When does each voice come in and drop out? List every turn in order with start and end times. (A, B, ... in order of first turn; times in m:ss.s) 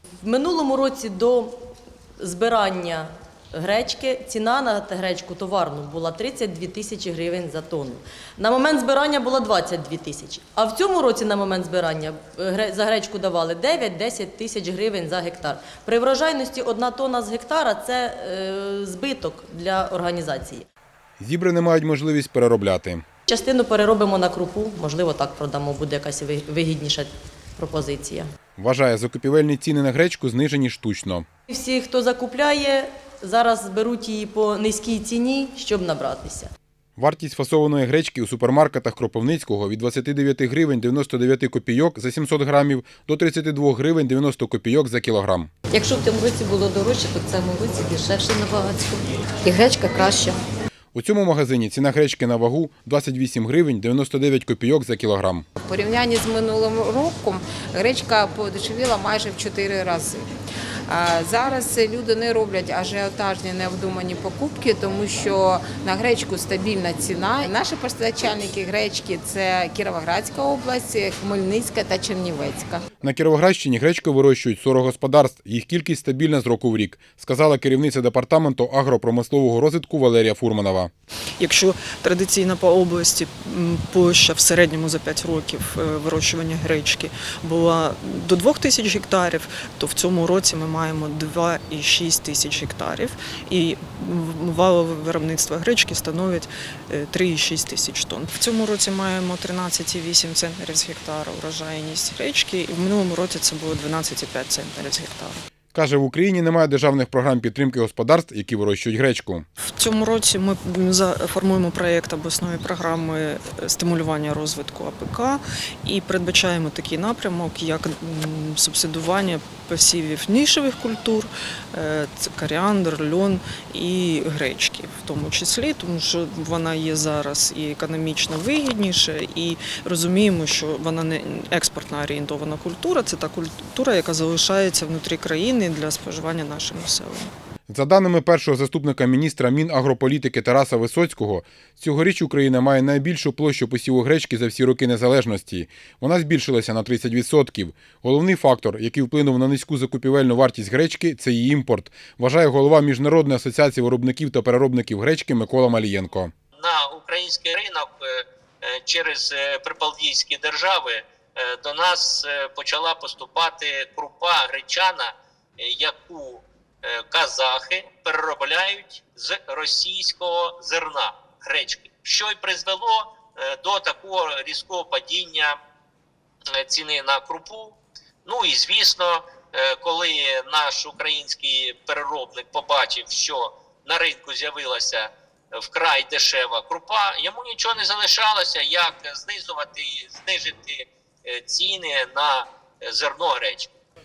0:00.2-0:01.6 A
0:02.2-0:20.6 A
0:21.2-0:23.0 B
0:23.3-0:28.3 A
0:28.6-0:31.2 B
0:31.5-0:36.5 A
0:37.0-0:45.5 B
0:45.7-0:50.4 C
0:50.9-0:55.4 B
0:55.6-1:00.2 D
1:00.9-1:12.8 D
1:13.0-1:20.9 B
1:21.4-1:45.4 E
1:45.7-1:49.4 B
1:49.7-2:17.3 E
2:17.7-2:36.3 B
2:36.6-2:55.6 F
2:56.5-3:13.7 F